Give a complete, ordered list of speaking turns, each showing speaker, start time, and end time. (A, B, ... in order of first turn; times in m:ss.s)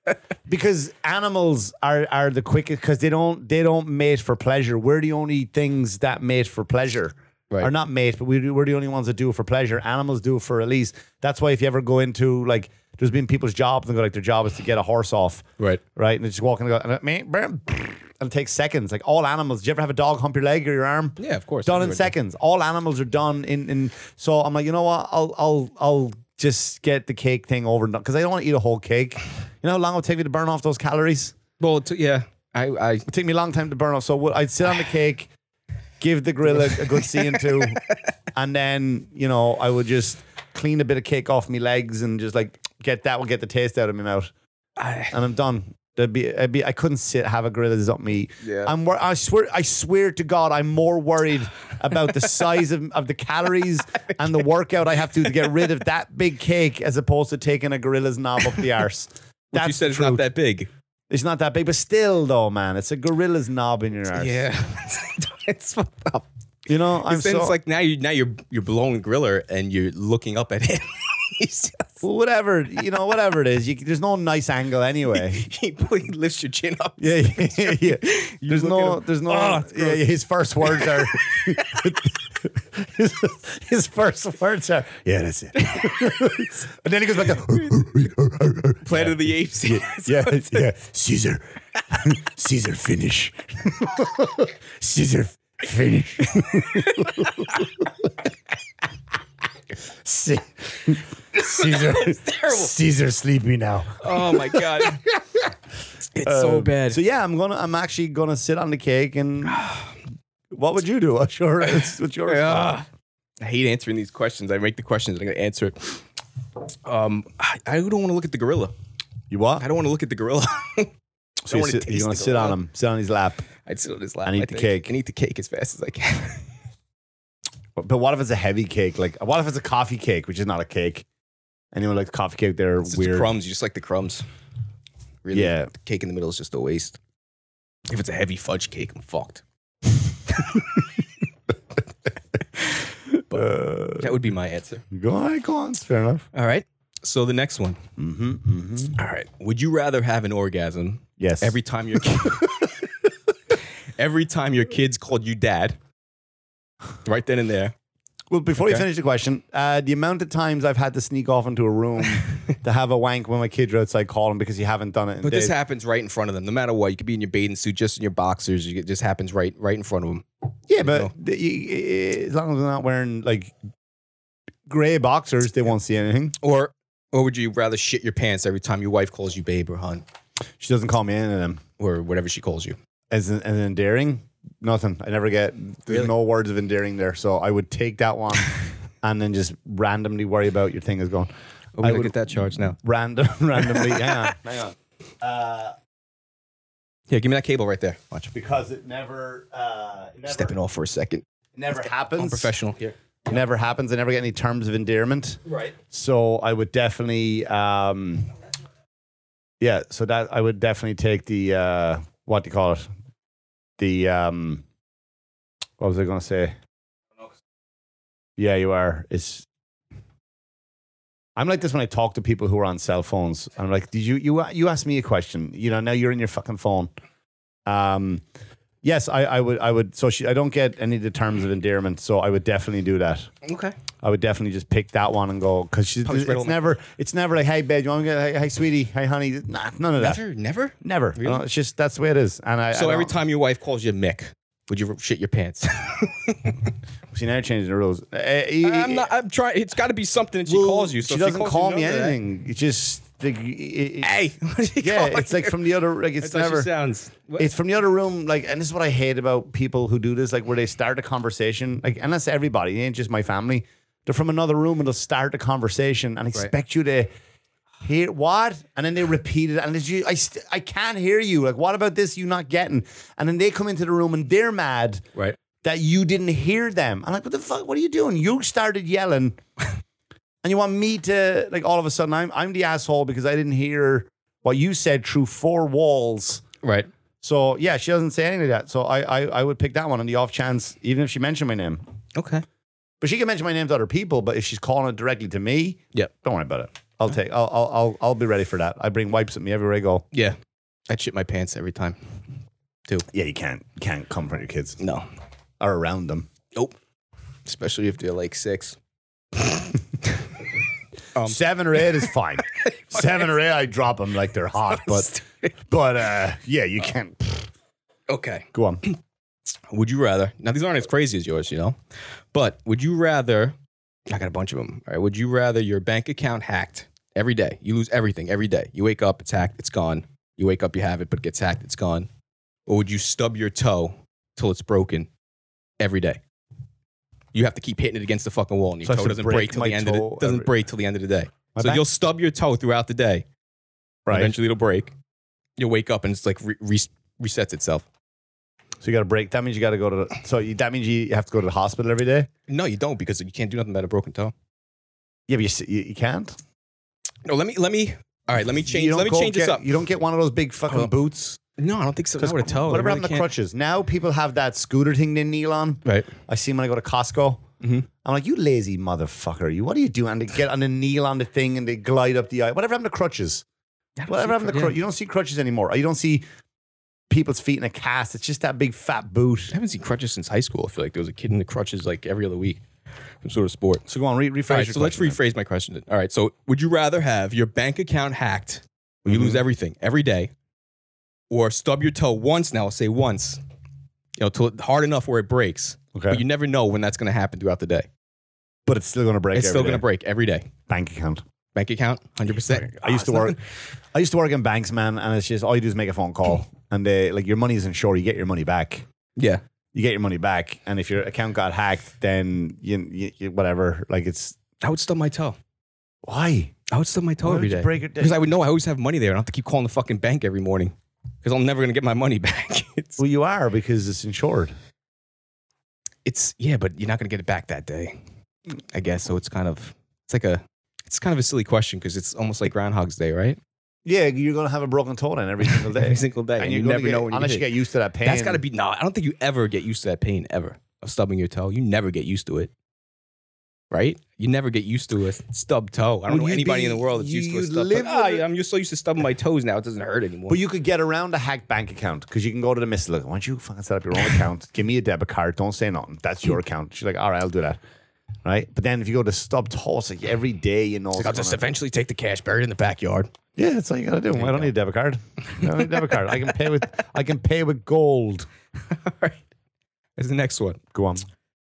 0:00.5-0:15.4 A
0:16.0-0:31.4 A
0:21.2-0:22.1 B
0:31.6-0:33.1 B
0:33.1-0:35.3 A
0:36.0-0:37.8 A
0:36.6-0:38.0 B
0:38.3-0:44.3 A
0:44.8-0:45.1 B
0:45.1-1:00.3 A
0:48.4-0:48.7 B
0:59.5-1:00.7 B
1:01.1-1:04.4 A
1:04.1-1:06.3 B
1:06.7-1:07.6 A
1:07.0-1:12.0 B
1:12.0-1:15.4 A
1:15.1-1:20.1 B
1:17.0-1:38.0 A
1:20.6-1:22.0 B
1:25.6-1:26.5 B
1:27.4-1:27.8 B
1:28.8-1:30.7 B
1:36.4-1:37.6 B
1:39.7-1:45.5 A
1:41.4-1:42.7 B
1:44.0-1:45.0 B
1:46.1-1:47.0 B
1:46.2-1:49.6 A
1:49.5-1:49.9 B
1:50.5-1:52.8 A
1:51.7-1:52.9 B
1:53.4-1:56.0 B
1:56.8-1:58.7 B
1:59.3-1:59.6 A
1:59.6-2:00.9 B
2:01.4-2:03.4 A
2:01.5-2:02.6 B
2:03.6-2:06.4 B
2:04.2-2:04.9 A
2:07.8-2:11.0 A
2:11.7-2:13.3 A
2:12.8-2:14.2 B
2:15.2-2:17.0 B
2:15.3-2:15.7 A
2:17.9-2:19.4 B
2:20.3-2:20.8 B
2:22.6-2:24.8 B
2:23.3-2:24.2 A
2:24.9-2:26.2 A
2:26.3-2:27.8 B
2:28.0-2:29.0 A
2:29.0-2:32.7 B
2:31.2-2:32.7 A
2:34.0-2:35.8 B
2:37.0-2:37.7 B
2:38.3-2:45.5 A
2:38.6-2:38.8 B
2:45.2-2:50.2 B
2:50.7-2:53.5 A
2:50.8-2:51.1 B
2:54.6-2:56.4 A
2:56.4-3:00.0 B
3:00.6-3:01.6 A
3:01.8-3:02.8 B
3:03.1-3:11.3 A
3:11.8-3:12.8 B
3:11.8-3:12.2 A
3:12.7-3:15.7 A
3:17.1-3:18.3 B
3:18.3-3:20.6 A
3:20.3-3:21.2 B
3:21.5-3:22.5 A
3:22.2-3:23.0 B
3:23.3-3:28.3 A
3:25.5-3:25.7 B
3:29.6-3:32.8 A
3:33.8-3:34.6 A
3:35.8-3:36.5 A
3:38.4-3:39.4 A
3:41.4-3:46.9 A
3:47.7-3:48.2 A
3:48.8-3:53.3 A
3:53.4-3:53.7 B
3:54.0-4:00.2 A
3:56.0-3:56.7 B
4:00.0-4:01.4 B
4:00.8-4:03.2 A
4:02.7-4:06.7 B
4:07.1-4:09.1 A
4:08.6-4:12.2 B
4:10.4-4:14.1 A
4:14.0-4:15.6 B
4:14.8-4:16.7 A
4:16.2-4:17.5 B
4:17.4-4:27.1 A
4:27.8-4:35.0 A
4:35.6-4:39.4 A
4:40.4-4:46.4 A
4:46.6-4:46.9 B
4:47.2-4:51.8 A
4:52.1-4:52.4 B
4:53.0-5:00.0 A
5:00.9-5:02.0 B
5:03.1-5:04.8 A
5:04.8-5:05.0 B
5:05.6-5:06.3 A
5:07.4-5:08.8 B
5:09.3-5:10.2 B
5:11.1-5:13.1 B
5:11.2-5:15.1 A
5:14.6-5:15.5 B
5:15.7-5:17.5 A
5:18.1-5:19.0 B
5:18.5-5:18.8 A
5:19.7-5:21.8 B
5:22.3-5:23.6 B
5:24.1-5:32.1 B
5:32.7-5:35.1 B
5:35.8-5:36.2 B
5:37.3-5:43.2 B
5:38.8-5:40.5 A
5:41.5-5:41.8 A
5:44.0-5:44.3 A
5:44.1-5:44.9 B
5:45.6-5:47.8 B
5:48.8-5:52.3 A
5:52.5-5:54.3 B
5:55.3-5:56.4 A
5:57.2-5:59.6 B
5:58.6-6:01.4 A
6:01.6-6:03.3 B
6:02.2-6:07.4 A
6:05.8-6:06.1 B
6:07.6-6:07.8 B
6:08.0-6:13.4 A
6:14.0-6:14.8 B
6:14.1-6:16.2 A
6:17.1-6:19.5 A
6:19.5-6:22.6 B
6:23.2-6:23.8 B
6:23.9-6:25.2 A
6:24.5-6:30.3 B
6:29.0-6:29.4 A
6:31.3-6:33.4 B
6:34.2-6:37.9 B
6:35.9-6:36.2 A
6:38.6-6:39.8 A
6:39.3-6:40.5 B
6:40.7-6:41.2 A
6:41.5-6:43.4 B
6:42.4-6:43.4 A
6:43.9-6:48.8 A
6:49.7-6:54.4 A
6:54.6-6:55.4 B
6:56.0-6:56.5 A
6:56.7-7:03.0 B
6:57.2-6:58.2 A
7:03.0-7:04.5 A
7:06.0-7:08.0 B
7:08.7-7:13.4 B
7:13.8-7:18.4 A
7:15.7-7:17.4 B
7:18.0-7:22.5 B
7:23.7-7:30.4 B
7:26.1-7:28.2 A
7:30.3-7:37.6 A
7:38.2-7:41.4 A
7:40.9-7:43.1 B
7:43.4-7:48.3 A
7:44.1-7:44.5 B
7:45.4-7:46.1 B
7:48.7-7:49.2 B
7:50.0-7:50.6 B
7:50.7-7:51.0 A